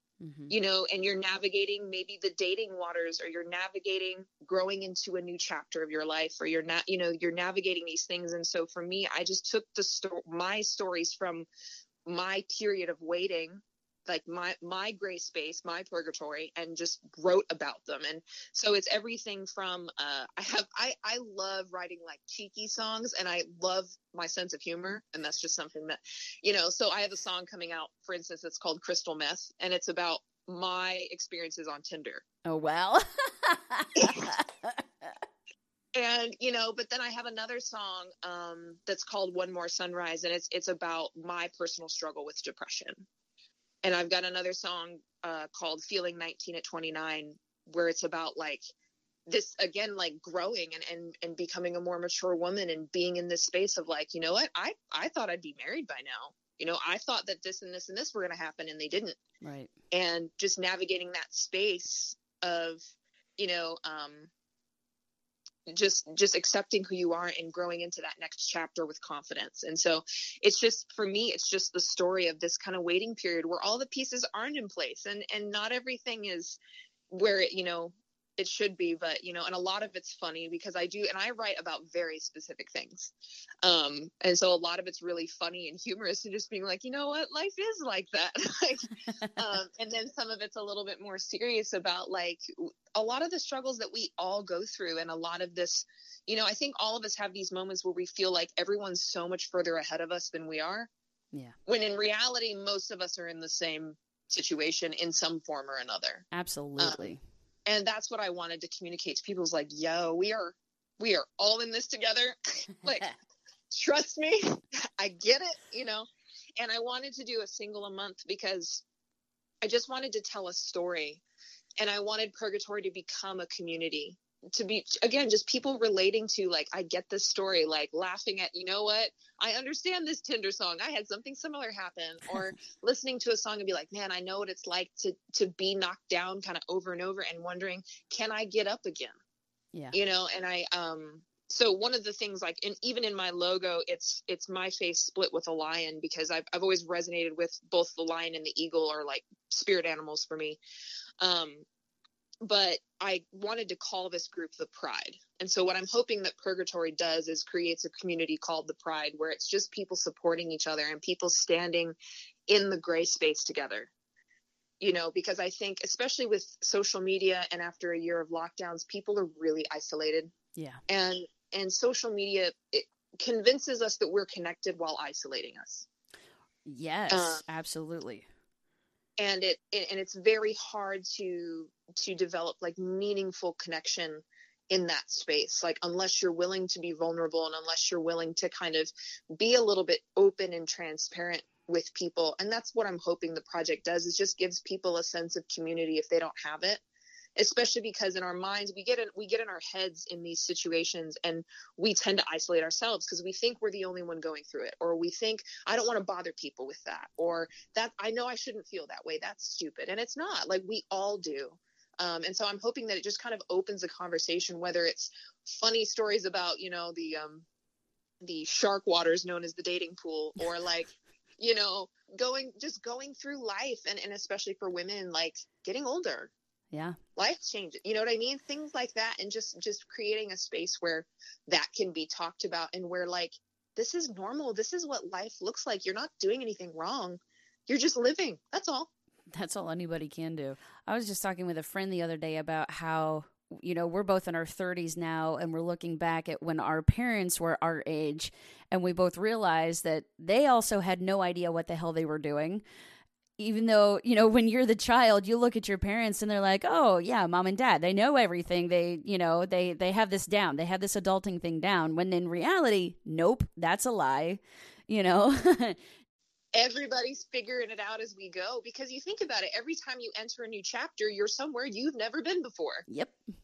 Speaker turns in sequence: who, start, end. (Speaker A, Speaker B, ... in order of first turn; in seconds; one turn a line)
Speaker A: 0.2-0.5
Speaker B: 0.5-11.5
Speaker B: 12.1-32.2
Speaker A: 32.4-35.1
Speaker B: 34.0-34.2
Speaker B: 35.9-43.0
Speaker B: 43.8-48.6
Speaker B: 49.3-59.2
Speaker A: 59.4-59.7
Speaker B: 59.9-62.8
Speaker B: 63.4-64.3
Speaker B: 65.7-76.6
Speaker B: 77.1-100.9
Speaker B: 101.7-106.2
Speaker A: 106.3-107.2
Speaker B: 107.7-113.1
Speaker B: 113.7-118.8
Speaker B: 119.6-121.2
Speaker B: 121.8-139.2
Speaker B: 139.9-150.6
Speaker B: 151.2-151.6
Speaker B: 152.4-161.9
Speaker B: 162.5-163.9
Speaker B: 164.8-170.3
Speaker A: 170.6-170.8
Speaker B: 170.9-175.9
Speaker A: 176.7-178.2
Speaker B: 177.1-177.4
Speaker B: 179.2-196.8
Speaker B: 197.3-217.4
Speaker B: 218.2-226.3
Speaker B: 227.2-238.9
Speaker A: 239.3-252.6
Speaker A: 253.4-265.8
Speaker B: 266.5-272.9
Speaker A: 272.9-273.2